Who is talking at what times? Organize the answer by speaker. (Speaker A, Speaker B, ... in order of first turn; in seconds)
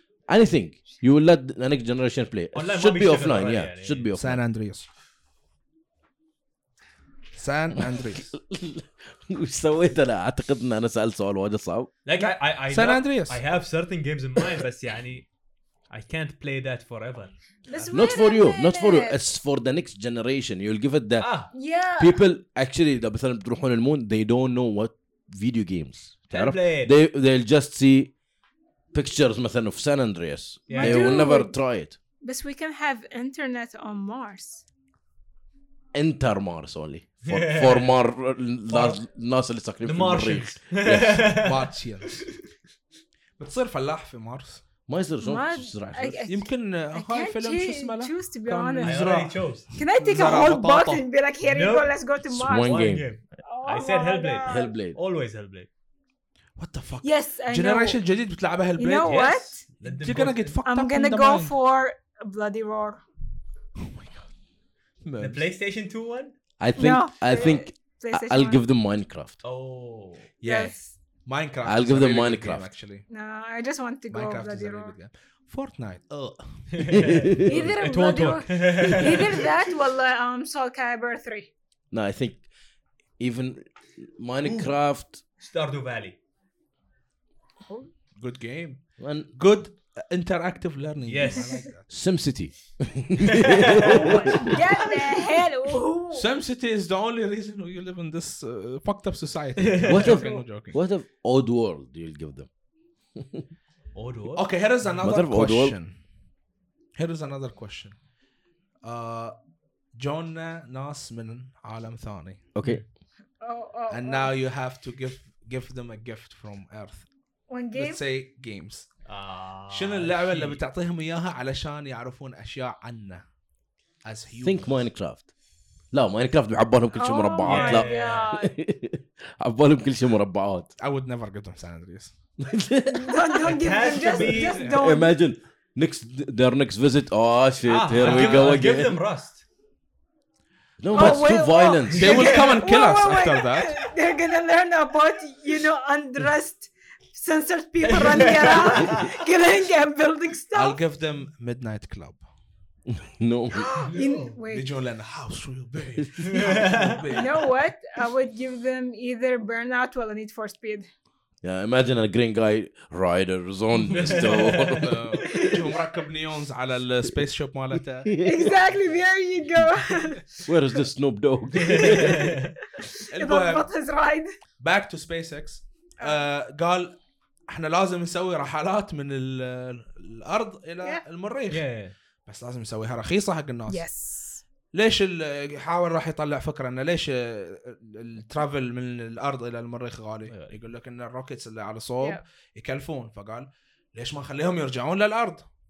Speaker A: 0.3-4.4, 7.8-11.9, 17.9-21.3, 22.0-28.1, 28.9-32.0, 35.9-41.4, 44.9-46.2, 52.3-53.0, 54.5-55.0, 66.6-69.4, 71.6-72.7, 76.9-77.6, 81.9-82.5, 83.2-85.2, 89.0-89.3, 91.9-94.6, 99.8-102.5, 103.1-103.5, 105.0-105.8, 112.5-112.8, 124.4-125.3, 125.9-130.7, 132.4-133.2, 134.6-139.0, 140.8-142.3, 152.9-153.9, 156.0-157.1, 161.4-165.7, 168.0-168.6, 170.4-172.4
Speaker B: 2.5-4.0, 12.0-15.3, 15.9-17.8, 21.2-21.5, 26.3-26.9, 30.7-31.3, 37.2-38.0, 38.7-39.0, 39.8-42.3, 48.8-49.7, 51.5-55.7, 59.0-60.6, 65.2-66.3, 69.4-70.3, 76.7-79.5, 84.4-84.7, 85.4-86.2, 91.0-91.5, 93.3-94.3, 99.6-100.0, 103.9-104.5, 119.0-120.6, 127.4-128.3, 133.4-134.8, 137.6-139.4, 147.8-149.1, 153.9-154.3, 156.3-157.0, 163.9-164.8, 171.6-172.5, 181.5-181.9, 190.3-190.6
Speaker C: 4.2-4.9, 7.3-8.3, 12.2-13.4, 41.3-42.2, 43.4-44.6, 46.3-49.4, 50.0-51.0, 56.6-61.5, 63.8-64.2, 65.0-65.5, 70.4-73.0, 74.1-76.9, 88.2-91.9, 96.1-100.8, 104.3-105.9, 107.0-108.0, 108.8-109.3, 109.9-112.4, 113.9-117.1, 117.7-118.9, 119.7-123.2, 124.0-124.8, 130.8-132.1, 133.9-134.8, 141.9-143.9, 150.5-152.2, 154.5-157.5, 164.2-168.2, 173.1-173.7, 174.6-181.7, 182.2-183.8, 184.7-195.5
Speaker D: 17.7-19.3, 21.5-22.2, 30.7-31.6, 32.2-34.6, 45.2-49.0, 49.7-52.8, 53.4-54.7, 57.0-58.0, 58.8-59.6, 60.6-63.0, 66.8-68.6, 70.4-71.0, 73.1-75.0, 77.4-81.5, 91.4-91.7, 93.8-96.2, 100.0-100.4, 113.4-114.3, 117.5-118.0, 126.9-128.5, 132.9-135.1, 140.9-150.8, 153.5-154.7, 157.1-160.9, 168.2-170.4, 172.8-174.3, 183.7-184.4